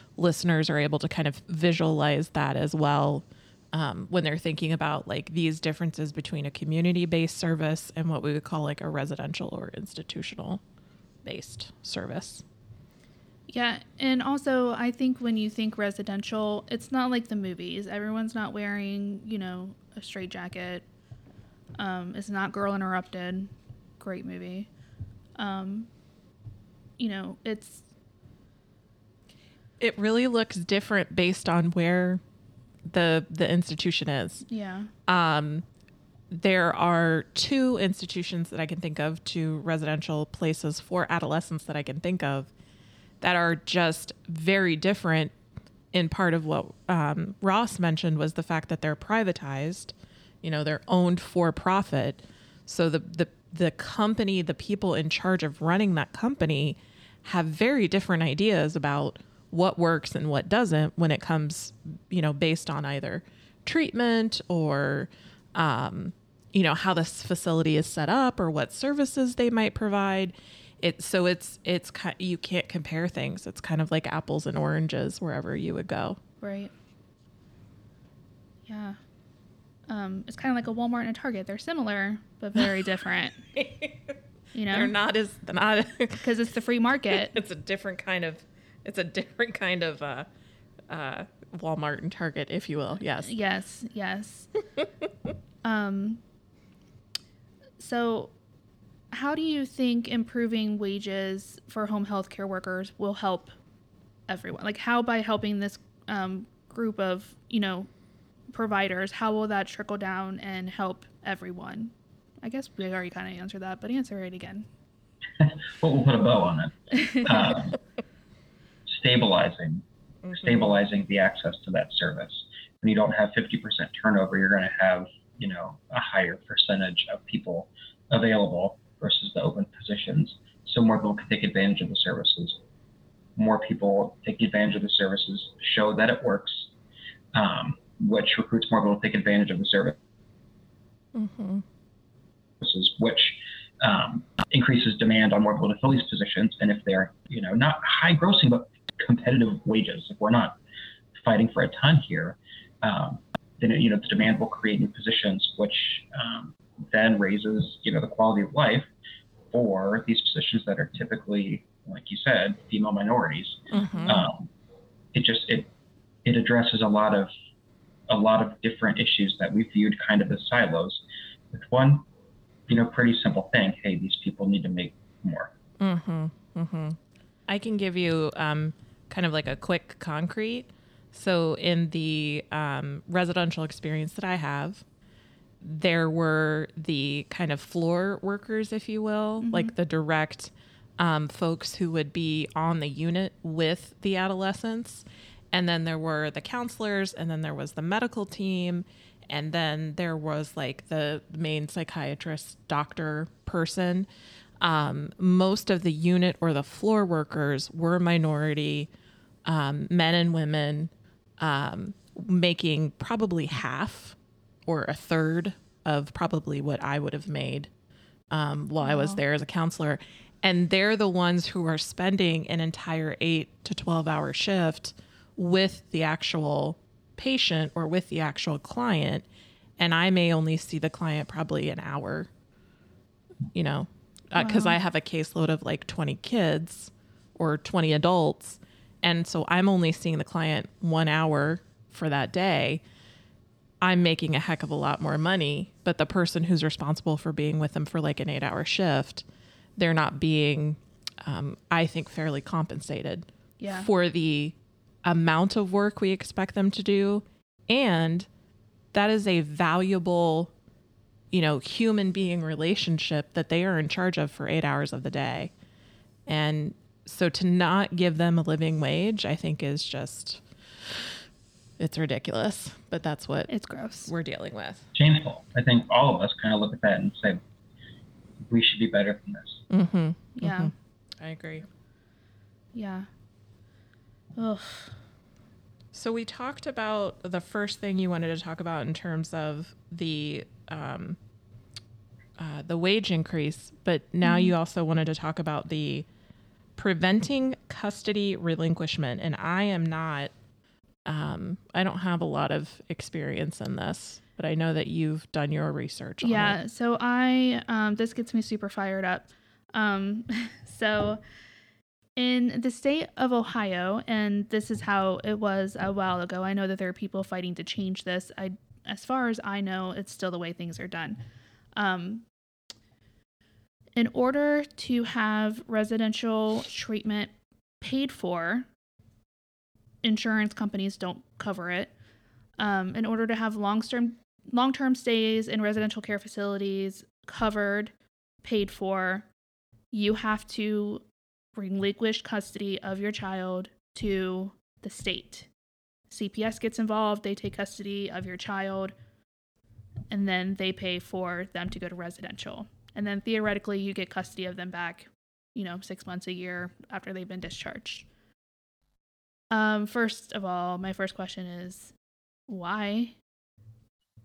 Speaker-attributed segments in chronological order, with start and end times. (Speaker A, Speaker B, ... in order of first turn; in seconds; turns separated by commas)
Speaker A: 0.2-10.6, Speaker A: 11.2-12.4, Speaker B: 13.5-20.8, Speaker B: 21.8-24.7, Speaker B: 25.4-25.9, Speaker B: 27.0-27.9, Speaker A: 29.8-32.2, Speaker A: 32.9-34.5, Speaker B: 34.5-34.9, Speaker A: 35.1-35.6, Speaker A: 36.3-42.5, Speaker A: 43.2-45.3, Speaker A: 45.9-76.2, Speaker B: 76.4-76.7, Speaker B: 78.7-79.0, Speaker B: 79.9-83.5, Speaker A: 83.5-84.2, Speaker B: 84.5-84.9, Speaker A: 84.7-86.3, Speaker B: 86.2-87.3, Speaker A: 87.1-90.3, Speaker A: 90.9-93.3, Speaker B: 93.2-94.5, Speaker B: 95.6-96.2, Speaker B: 97.8-98.3, Speaker B: 99.1-103.6, Speaker B: 104.3-107.9, Speaker B: 108.5-114.7, Speaker C: 115.4-117.8, Speaker B: 117.0-117.3, Speaker C: 118.9-132.6, Speaker A: 120.2-120.5, Speaker C: 133.3-136.7, Speaker C: 137.3-139.9, Speaker A: 141.1-141.6, Speaker C: 142.6-150.6, Speaker C: 151.2-158.9, Speaker C: 159.5-164.5, Speaker A: 163.7-164.2, Speaker C: 165.1-165.7, Speaker C: 166.2-167.3, Speaker C: 168.1-172.0, Speaker C: 172.7-175.5, Speaker A: 175.8-184.8, Speaker A: 185.6-204.1, Speaker B: 189.4-189.7, Speaker A: 204.6-208.9, Speaker A: 209.4-217.7, Speaker A: 218.3-229.2, Speaker B: 218.8-219.2, Speaker A: 229.8-232.3, Speaker A: 233.5-242.8, Speaker B: 234.4-234.8, Speaker A: 243.8-249.2, Speaker A: 249.8-258.3, Speaker B: 253.6-253.9, Speaker A: 258.9-260.5, Speaker A: 261.3-265.5, Speaker A: 266.2-271.2, Speaker A: 271.8-273.5, Speaker B: 273.5-274.1, Speaker A: 274.1-274.9, Speaker C: 274.9-277.4, Speaker C: 278.5-279.6, Speaker A: 279.7-281.7, Speaker B: 280.4-280.7, Speaker B: 282.7-283.1, Speaker B: 284.4-285.0, Speaker A: 285.9-291.2, Speaker A: 292.4-296.1, Speaker B: 294.2-294.5, Speaker A: 296.8-300.3, Speaker A: 301.1-306.6, Speaker B: 306.2-311.2, Speaker B: 312.2-321.2, Speaker B: 321.8-322.2, Speaker B: 323.9-328.7, Speaker B: 330.0-331.9, Speaker B: 332.6-337.9, Speaker B: 338.4-339.2, Speaker B: 339.9-341.0, Speaker B: 341.6-345.5, Speaker B: 346.1-348.9, Speaker B: 350.1-358.1, Speaker B: 359.5-361.9, Speaker B: 362.5-363.1